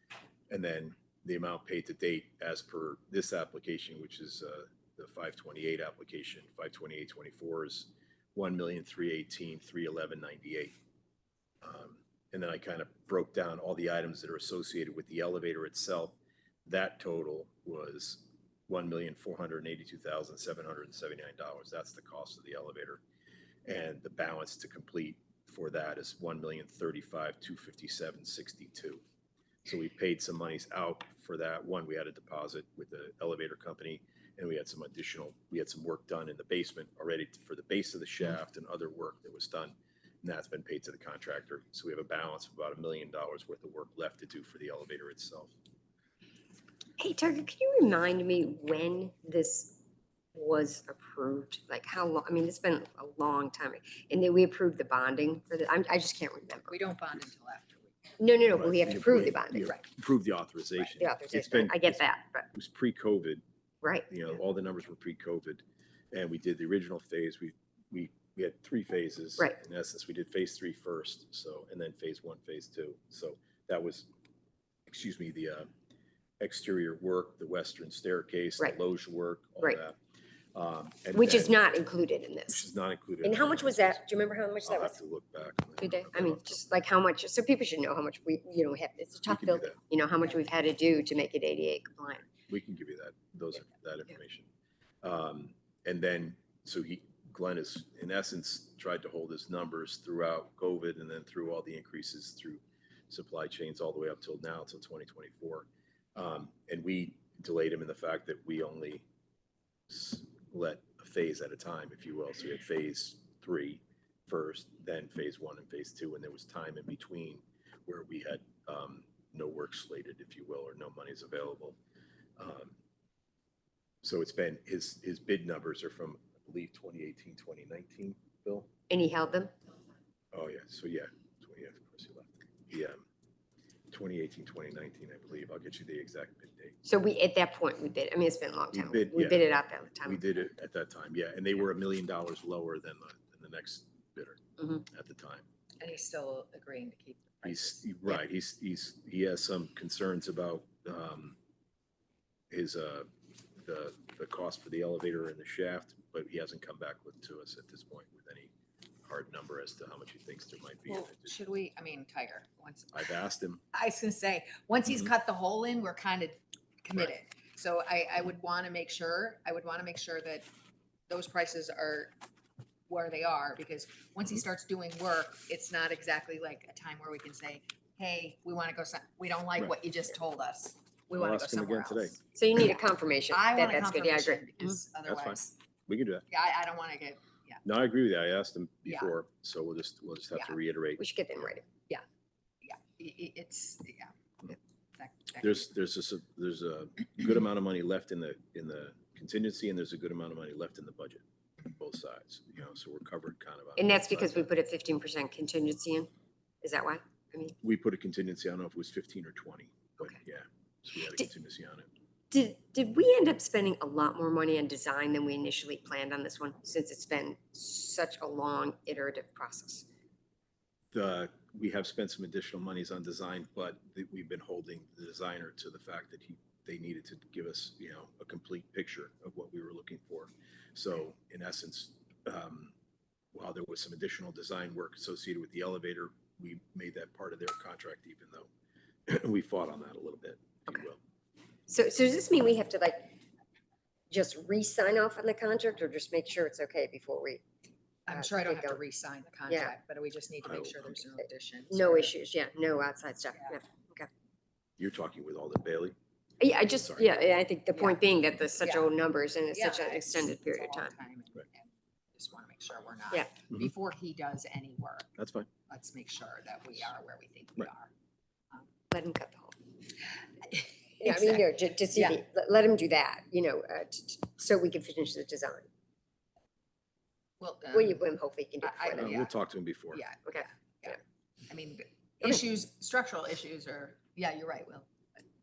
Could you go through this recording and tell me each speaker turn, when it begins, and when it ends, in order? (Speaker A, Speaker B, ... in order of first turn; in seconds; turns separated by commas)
Speaker A: 0.5-10.7, Speaker A: 11.6-23.0, Speaker A: 23.6-29.0, Speaker A: 29.6-45.5, Speaker B: 47.0-49.8, Speaker B: 50.3-56.7, Speaker C: 56.7-57.9, Speaker B: 58.2-59.7, Speaker A: 58.5-63.4, Speaker B: 60.8-62.5, Speaker B: 63.8-64.1, Speaker A: 64.1-74.1, Speaker A: 74.9-75.7, Speaker A: 76.4-80.0, Speaker A: 80.5-81.6, Speaker B: 81.1-82.6, Speaker A: 82.5-84.0, Speaker B: 83.2-85.0, Speaker A: 84.6-86.6, Speaker B: 85.8-92.3, Speaker A: 89.3-89.8, Speaker A: 92.5-94.5, Speaker A: 95.0-109.1, Speaker A: 109.9-121.8, Speaker A: 122.4-122.8, Speaker A: 124.0-128.7, Speaker B: 128.9-129.5, Speaker A: 130.3-133.0, Speaker A: 133.9-136.8, Speaker B: 136.8-140.3, Speaker A: 138.7-139.5, Speaker A: 140.0-145.5, Speaker C: 145.8-147.8, Speaker A: 147.4-151.4, Speaker A: 152.5-158.5, Speaker A: 159.0-161.3, Speaker C: 160.9-163.1, Speaker A: 162.9-163.6, Speaker C: 163.7-170.4, Speaker C: 171.1-172.1, Speaker C: 172.9-182.2, Speaker A: 181.1-182.2, Speaker B: 182.3-184.5, Speaker C: 183.3-185.5, Speaker A: 185.0-186.2, Speaker C: 186.3-187.6, Speaker A: 187.6-191.0, Speaker C: 188.9-189.1, Speaker B: 191.0-191.7, Speaker C: 192.6-194.1, Speaker C: 195.0-195.7, Speaker A: 195.4-204.5, Speaker B: 203.8-206.1, Speaker B: 206.6-207.6, Speaker A: 207.6-211.9, Speaker B: 212.3-219.9, Speaker A: 220.9-232.7, Speaker A: 233.3-238.5, Speaker A: 239.1-241.0, Speaker B: 241.7-243.1, Speaker B: 244.1-247.4, Speaker C: 248.1-252.1, Speaker B: 248.1-248.8, Speaker B: 249.5-249.7, Speaker A: 250.4-250.9, Speaker B: 251.7-254.1, Speaker A: 254.8-255.9, Speaker B: 256.4-260.9, Speaker A: 256.8-257.1, Speaker C: 257.7-258.0, Speaker C: 258.6-258.9, Speaker C: 259.5-265.1, Speaker A: 265.2-265.5, Speaker C: 265.7-267.9, Speaker B: 268.9-269.6, Speaker C: 270.4-272.2, Speaker B: 271.0-275.7, Speaker C: 277.4-278.0, Speaker B: 277.7-279.2, Speaker C: 278.6-279.3, Speaker A: 278.9-280.0, Speaker C: 279.9-284.9